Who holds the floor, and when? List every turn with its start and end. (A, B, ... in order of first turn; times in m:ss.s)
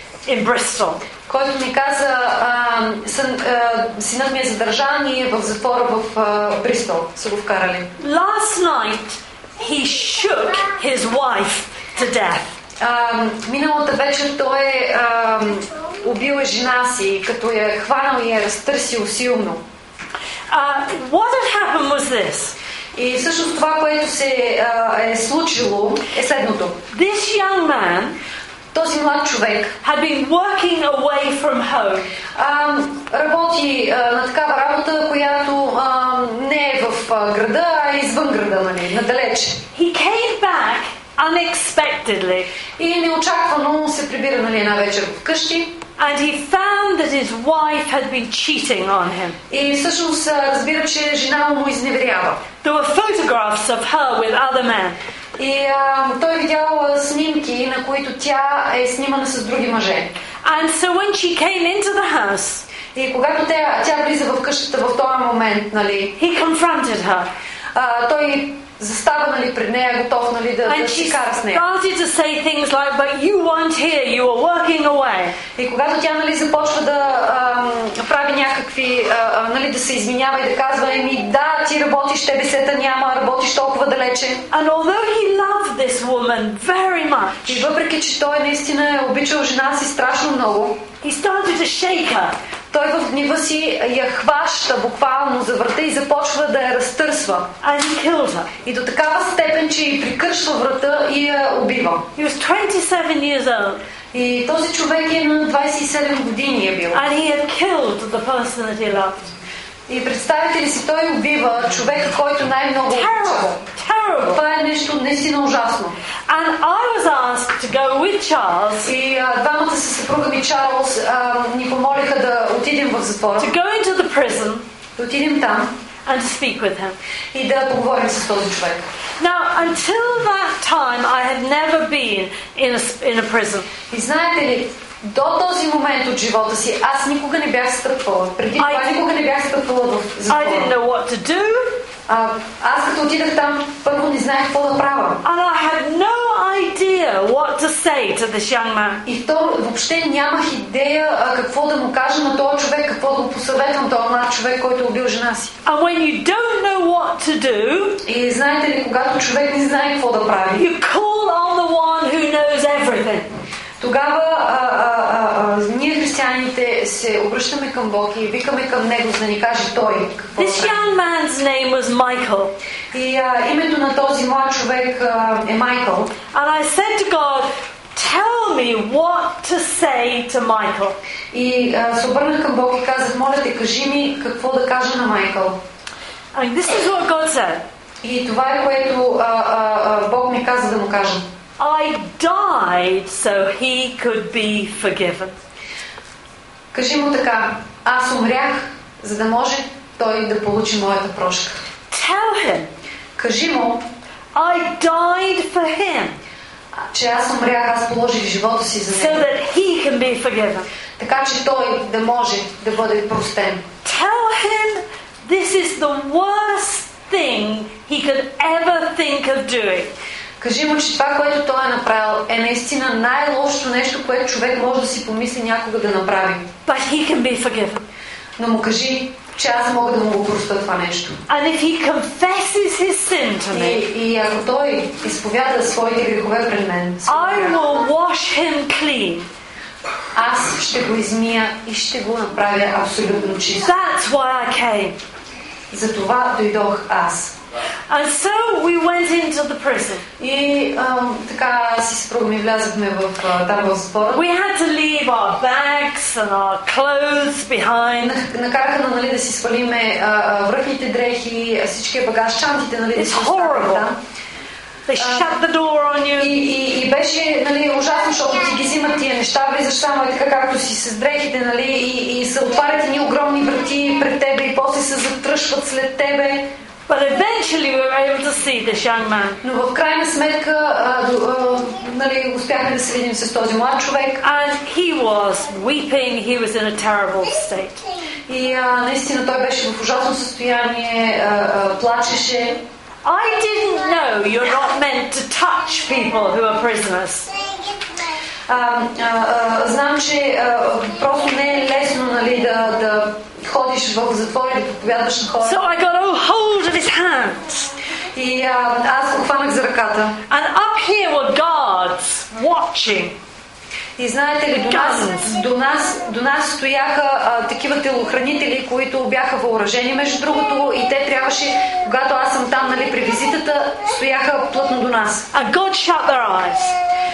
0:00.3-0:01.0 A
0:01.3-0:07.9 B
0:08.0-0:12.6 A
0:12.8-0:19.6 B
0:20.5-0:22.6 A
0:23.0-0:26.8 B
0:26.9-0:28.2 A
0:28.7-0:29.7 B
0:29.8-0:32.1 A
0:32.4-0:39.6 B
0:39.7-0:42.5 A
0:42.8-0:45.8 B
0:46.0-0:49.4 A
0:49.5-0:52.4 B
0:52.6-0:55.0 A
0:55.4-1:00.1 B
1:00.4-1:02.6 A
1:02.9-1:06.2 B
1:06.2-1:07.3 A
1:07.7-1:11.6 B
1:10.7-1:15.4 A
1:15.6-1:24.4 B
1:24.5-1:27.6 A
1:27.4-1:30.8 B
1:31.0-1:32.4 A
1:32.7-1:37.5 B
1:37.6-1:38.5 A
1:38.6-1:42.1 B
1:42.2-1:43.8 A
1:44.1-1:47.0 B
1:46.9-1:49.3 A
1:49.9-1:53.6 B
1:52.9-1:54.4 A
1:54.3-1:56.0 B
1:56.3-1:58.9 A
1:58.9-2:03.5 B
2:03.4-2:04.6 A
2:05.0-2:05.7 B
2:06.1-2:07.0 A
2:07.3-2:08.9 B
2:09.2-2:13.7 A
2:13.9-2:20.7 B
2:18.6-2:18.9 A
2:20.3-2:21.8 A
2:22.1-2:25.2 B
2:25.2-2:29.0 A
2:29.0-2:35.5 B
2:35.6-2:38.0 A
2:38.0-2:40.6 B
2:40.6-2:43.3 A
2:43.8-2:50.8 B
2:50.4-2:52.6 A
2:52.9-2:56.2 B
2:56.3-3:01.0 A
3:01.3-3:05.6 B
3:06.3-3:07.6 A
3:08.0-3:11.2 B
3:11.6-3:15.3 A
3:16.7-3:21.6 B
3:21.9-3:22.7 A
3:23.2-3:23.9 B
3:24.3-3:26.2 A
3:26.8-3:29.2 B
3:28.9-3:30.7 A
3:31.0-3:33.6 B
3:33.8-3:39.9 A
3:40.4-3:46.5 B
3:46.7-3:47.8 A
3:48.4-3:51.2 B
3:51.3-3:53.8 A
3:53.5-3:57.6 B
3:57.1-3:59.3 A
4:00.2-4:03.7 B
4:03.6-4:05.0 A
4:05.7-4:07.4 B
4:07.9-4:10.0 A
4:10.2-4:14.2 B
4:14.1-4:18.2 A
4:18.0-4:24.0 B
4:23.0-4:23.9 A
4:24.9-4:26.4 A
4:25.0-4:25.3 B
4:26.2-4:36.5 B
4:36.9-4:39.4 A
4:39.4-4:44.2 B
4:44.2-4:47.9 A
4:48.3-4:52.6 B
4:53.0-4:57.3 A
4:58.5-5:05.6 B
5:05.4-5:07.7 A
5:08.2-5:10.2 B
5:10.3-5:13.2 A
5:14.0-5:25.3 B
5:14.7-5:15.4 A
5:25.3-5:26.8 A